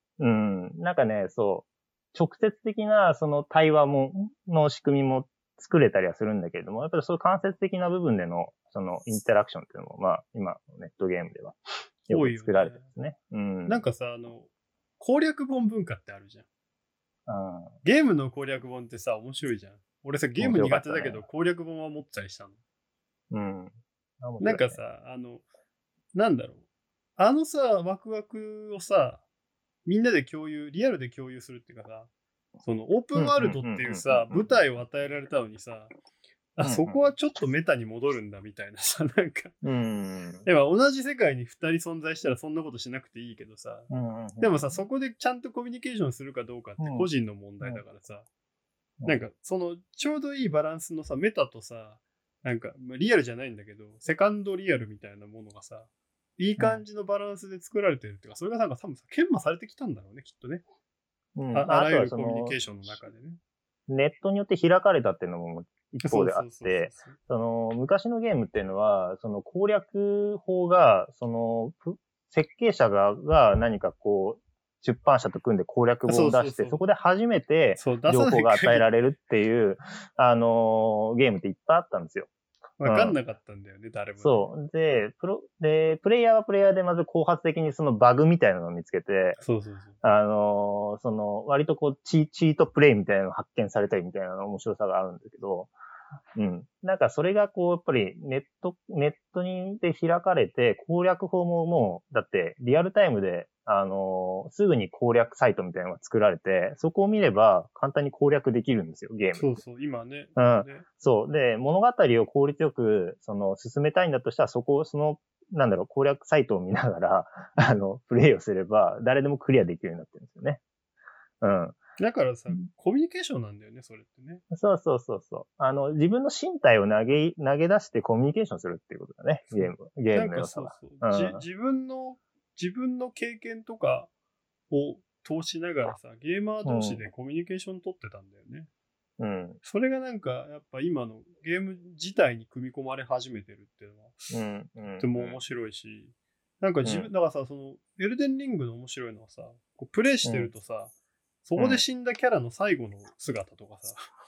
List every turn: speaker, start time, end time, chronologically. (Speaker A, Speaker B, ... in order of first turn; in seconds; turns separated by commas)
Speaker A: 0.2-13.8, Speaker B: 12.1-12.9, Speaker B: 13.7-16.4, Speaker A: 17.3-17.7, Speaker B: 17.8-22.6, Speaker A: 20.4-21.2, Speaker A: 23.3-24.8, Speaker B: 24.4-25.4, Speaker B: 26.1-26.6, Speaker B: 27.2-29.2, Speaker B: 29.9-32.1, Speaker B: 32.6-35.9, Speaker A: 33.2-34.6, Speaker B: 36.6-39.6, Speaker A: 36.6-37.1, Speaker A: 39.6-40.5, Speaker B: 40.5-48.3, Speaker A: 43.9-44.5, Speaker A: 46.8-47.1, Speaker B: 49.0-60.6, Speaker A: 61.4-62.6, Speaker B: 61.5-63.4, Speaker A: 63.9-82.3, Speaker B: 66.0-67.2, Speaker B: 76.1-76.8, Speaker B: 77.8-78.9, Speaker B: 82.8-84.5, Speaker A: 82.8-83.2, Speaker A: 84.2-89.4, Speaker B: 89.4-90.0, Speaker A: 90.0-95.7, Speaker A: 96.3-109.6, Speaker B: 109.3-110.9, Speaker A: 110.4-120.6, Speaker A: 121.4-121.8, Speaker B: 122.0-124.4, Speaker A: 124.5-131.4, Speaker B: 129.5-134.1, Speaker B: 134.7-138.7, Speaker A: 136.7-137.0, Speaker A: 139.2-139.6, Speaker B: 139.6-144.3, Speaker A: 144.3-145.4, Speaker B: 145.0-150.9, Speaker A: 146.8-147.1, Speaker A: 150.2-150.5, Speaker B: 151.4-154.1, Speaker A: 151.6-151.8